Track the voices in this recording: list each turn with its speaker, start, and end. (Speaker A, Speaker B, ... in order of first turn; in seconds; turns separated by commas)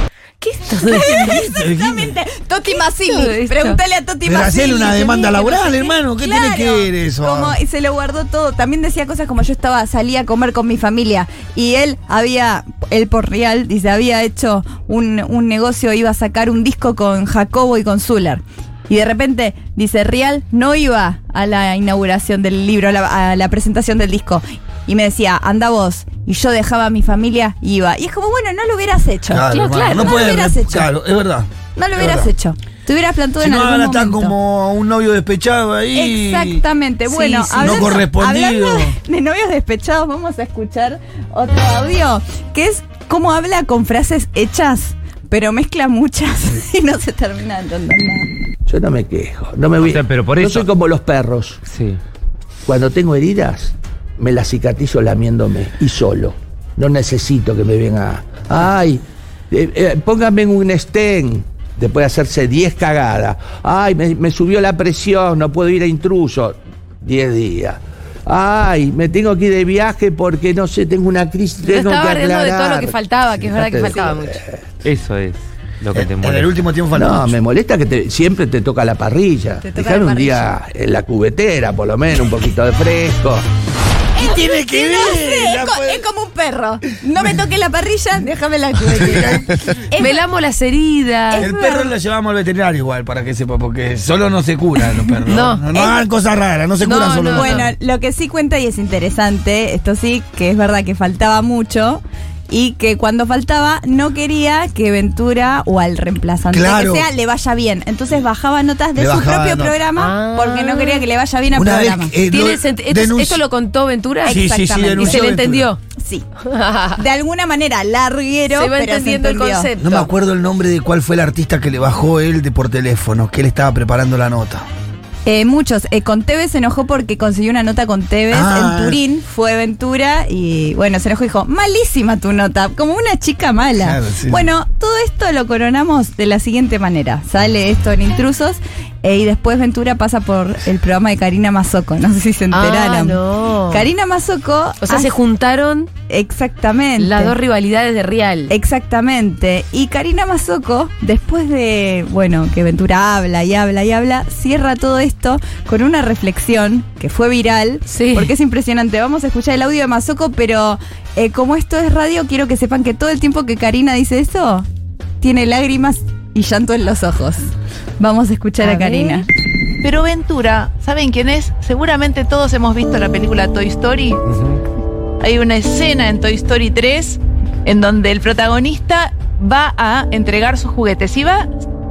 Speaker A: 0.4-1.4, Speaker B: 0.8-30.9, Speaker C: 0.9-2.1, Speaker A: 3.0-3.8, Speaker C: 4.2-7.6, Speaker C: 29.3-32.3, Speaker A: 29.5-30.1, Speaker B: 31.7-34.3, Speaker C: 33.4-36.6, Speaker B: 35.9-48.3, Speaker A: 37.1-38.0, Speaker C: 37.6-39.0, Speaker D: 48.7-51.6, Speaker E: 49.8-50.7, Speaker E: 51.7-52.0, Speaker D: 52.6-74.6, Speaker A: 71.7-74.4, Speaker E: 74.8-76.5, Speaker C: 75.9-77.4, Speaker D: 76.9-83.4, Speaker B: 79.6-80.5, Speaker B: 84.2-90.2, Speaker C: 84.2-86.0, Speaker C: 88.8-89.8, Speaker A: 90.0-91.5, Speaker B: 91.3-91.9, Speaker C: 91.3-97.7, Speaker A: 95.3-95.6, Speaker B: 95.7-96.0, Speaker A: 96.8-97.7, Speaker B: 97.3-112.1, Speaker C: 106.5-107.1, Speaker C: 109.0-109.8, Speaker A: 110.0-111.0, Speaker C: 111.5-113.4, Speaker A: 112.3-115.8, Speaker C: 114.2-115.7, Speaker B: 114.2-115.2, Speaker B: 116.0-116.2, Speaker A: 116.5-117.0, Speaker B: 117.0-119.7, Speaker A: 118.5-120.1, Speaker C: 119.8-124.6, Speaker B: 125.2-143.2, Speaker C: 128.3-129.0, Speaker C: 133.8-134.5, Speaker A: 142.5-143.9, Speaker B: 143.7-145.1, Speaker A: 144.8-145.9, Speaker B: 146.1-147.3, Speaker A: 147.0-148.5, Speaker B: 148.5-164.6, Speaker A: 157.9-158.3, Speaker B: 165.2-167.5, Speaker B: 168.0-169.2, Speaker A: 168.6-169.2, Speaker F: 169.8-174.2, Speaker F: 175.2-181.5